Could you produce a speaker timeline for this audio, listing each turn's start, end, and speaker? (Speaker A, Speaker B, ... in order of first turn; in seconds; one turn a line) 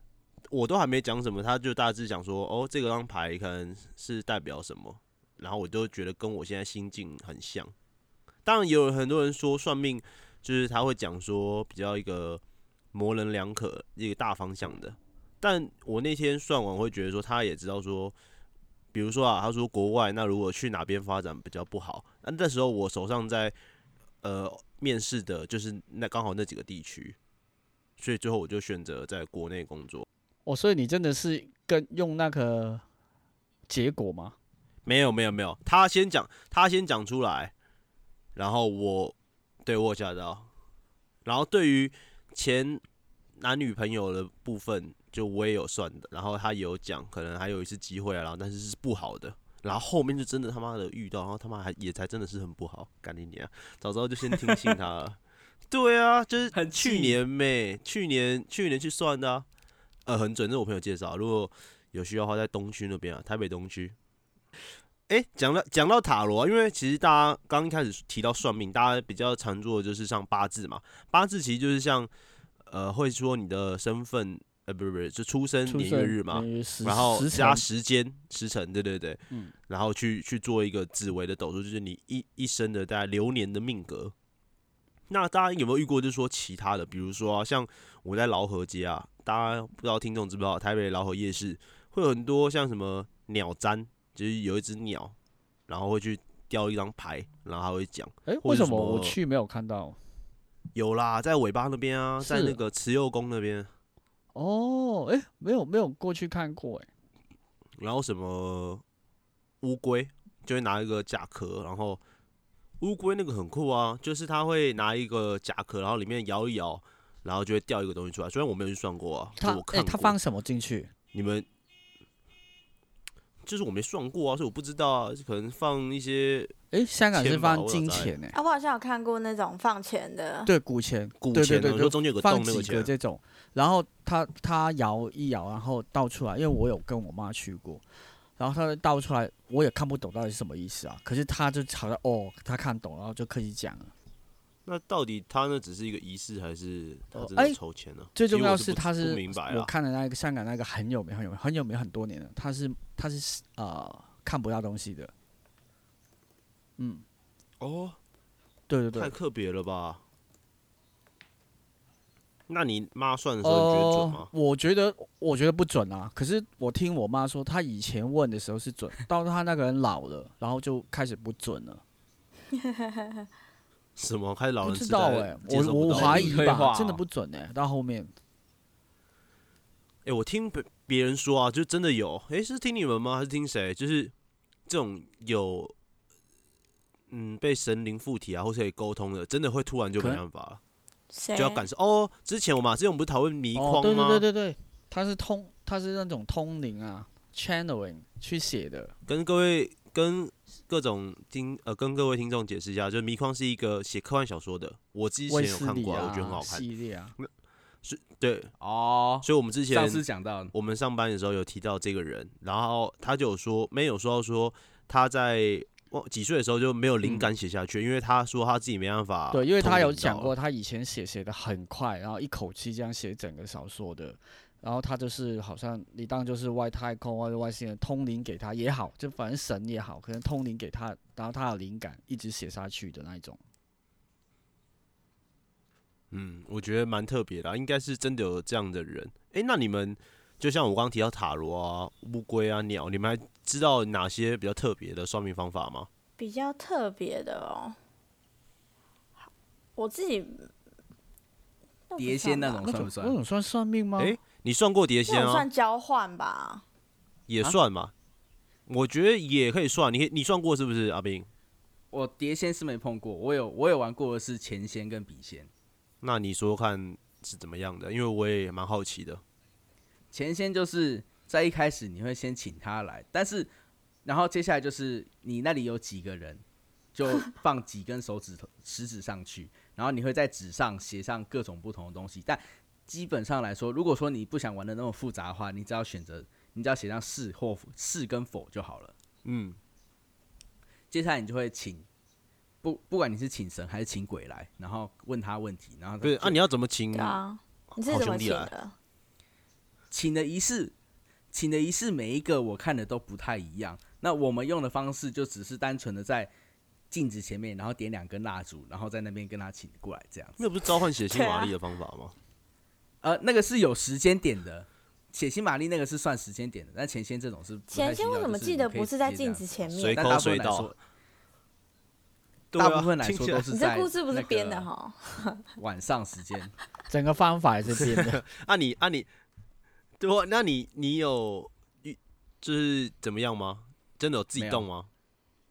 Speaker A: 0.5-7.7
Speaker A: 8.4-12.4
Speaker A: 12.9-18.1
Speaker A: 18.9-23.5
Speaker A: 24.2-27.1
Speaker A: 28.0-30.1
Speaker B: 30.4-32.8
Speaker B: 33.7-34.4
Speaker A: 34.8-37.5
Speaker A: 38.4-40.5
Speaker A: 41.2-42.8
Speaker A: 43.4-55.2
Speaker C: 54.4-54.7
Speaker A: 55.7-59.5
Speaker C: 56.5-57.2
Speaker A: 60.0-63.9
Speaker A: 65.1-72.1
Speaker A: 72.7-84.1
Speaker B: 75.7-77.6
Speaker A: 85.1-95.1
Speaker A: 95.7-99.2
Speaker B: 98.2-100.0
Speaker A: 100.7-103.7
Speaker B: 102.2-102.6
Speaker B: 104.3-106.9
Speaker A: 107.8-108.8
Speaker A: 109.6-112.0
Speaker A: 112.8-120.2
Speaker B: 119.4-120.9
Speaker A: 121.1-121.5
Speaker A: 123.4-126.5
Speaker B: 126.7-128.3
Speaker A: 127.1-128.1
Speaker D: 128.3-130.5
Speaker B: 130.4-137.8
Speaker A: 131.2-132.9
Speaker B: 138.4-143.9
Speaker A: 144.7-149.7
Speaker B: 147.1-147.6
Speaker B: 148.1-155.1
Speaker B: 156.8-157.0
Speaker A: 157.6-158.0
Speaker B: 158.7-159.1
Speaker A: 158.9-160.0
Speaker A: 162.5-164.3
Speaker B: 163.4-171.8
Speaker D: 172.5-173.2
Speaker A: 173.9-176.5
Speaker B: 174.6-178.1
Speaker C: 175.9-177.0
Speaker A: 180.0-184.1
Speaker A: 184.7-185.7
Speaker A: 187.1-190.6
Speaker D: 191.1-191.6
Speaker A: 191.3-194.2
Speaker B: 193.5-198.9
Speaker A: 199.1-206.7
Speaker B: 205.3-207.1
Speaker A: 207.8-208.5
Speaker C: 208.6-210.5
Speaker A: 209.2-220.3
Speaker B: 219.3-233.4
Speaker A: 236.1-245.9
Speaker D: 246.2-247.8
Speaker D: 249.8-250.5
Speaker D: 251.9-252.8
Speaker C: 252.0-253.1
Speaker B: 252.6-254.2
Speaker A: 254.0-255.5
Speaker D: 255.1-256.6
Speaker A: 257.3-257.9
Speaker A: 258.7-261.3
Speaker C: 261.9-265.5
Speaker A: 266.0-269.2
Speaker C: 270.1-273.5
Speaker C: 274.0-276.4
Speaker C: 276.9-288.9
Speaker A: 289.2-289.6
Speaker C: 290.9-291.9
Speaker C: 292.6-296.4
Speaker A: 296.0-297.2
Speaker D: 296.9-298.7
Speaker A: 297.7-298.5
Speaker C: 299.9-300.7
Speaker C: 301.3-306.3
Speaker C: 306.9-310.4
Speaker A: 310.4-312.1
Speaker D: 311.1-311.5
Speaker C: 313.0-320.8
Speaker D: 317.7-320.1
Speaker A: 319.8-320.7
Speaker A: 322.5-323.4
Speaker C: 322.5-324.7
Speaker D: 323.5-325.4
Speaker C: 325.6-326.5
Speaker B: 326.9-328.2
Speaker A: 327.8-329.1
Speaker A: 330.0-334.9
Speaker C: 334.4-334.6